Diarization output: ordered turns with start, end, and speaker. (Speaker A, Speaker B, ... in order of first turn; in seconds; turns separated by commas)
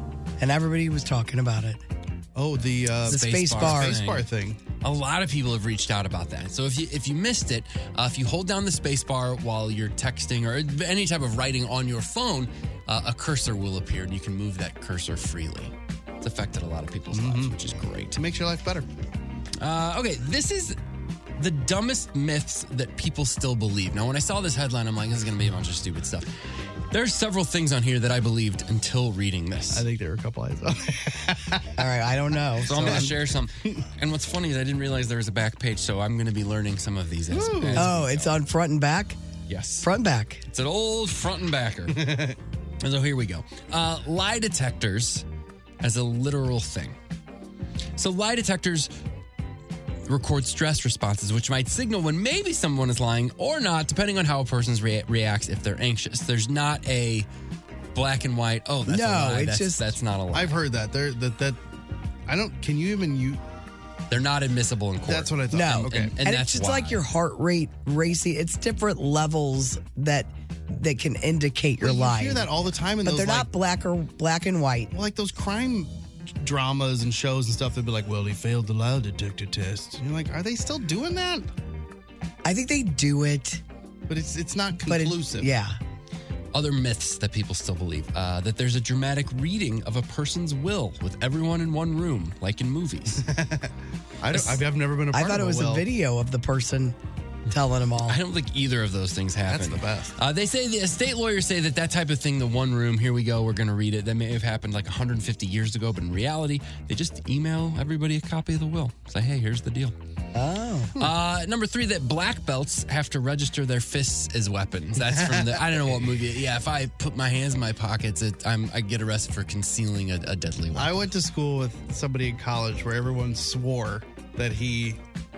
Speaker A: 0.4-1.8, Speaker B: 2.4-4.6, Speaker A: 3.0-4.0, Speaker C: 3.1-4.3, Speaker C: 4.8-18.2, Speaker B: 17.1-17.6, Speaker B: 18.1-18.9, Speaker C: 19.6-20.8, Speaker C: 21.4-26.3, Speaker C: 26.9-29.9, Speaker B: 29.7-31.8, Speaker A: 31.8-33.1, Speaker C: 32.7-38.4, Speaker B: 32.7-33.8, Speaker B: 37.3-37.9, Speaker A: 37.7-39.2, Speaker C: 39.5-39.9, Speaker A: 39.8-40.4, Speaker C: 40.5-42.0, Speaker B: 41.9-42.4, Speaker C: 42.8-45.2, Speaker C: 45.8-47.0, Speaker C: 48.0-48.9, Speaker C: 50.1-57.3, Speaker C: 57.9-60.6, Speaker A: 58.9-59.9, Speaker B: 60.3-61.6, Speaker B: 62.3-63.4, Speaker C: 64.1-67.0, Speaker B: 65.1-66.1, Speaker A: 65.5-72.5, Speaker B: 71.8-73.5, Speaker A: 73.0-74.9, Speaker B: 74.9-81.5, Speaker A: 82.4-83.6, Speaker B: 84.1-85.5, Speaker A: 84.9-85.8, Speaker C: 86.5-93.2, Speaker B: 93.2-93.7, Speaker B: 94.2-95.8, Speaker A: 95.1-97.0, Speaker A: 97.5-98.2, Speaker C: 98.0-110.0, Speaker B: 99.5-100.1, Speaker A: 110.3-110.9, Speaker C: 111.0-121.1, Speaker B: 115.1-116.2, Speaker B: 120.7-125.0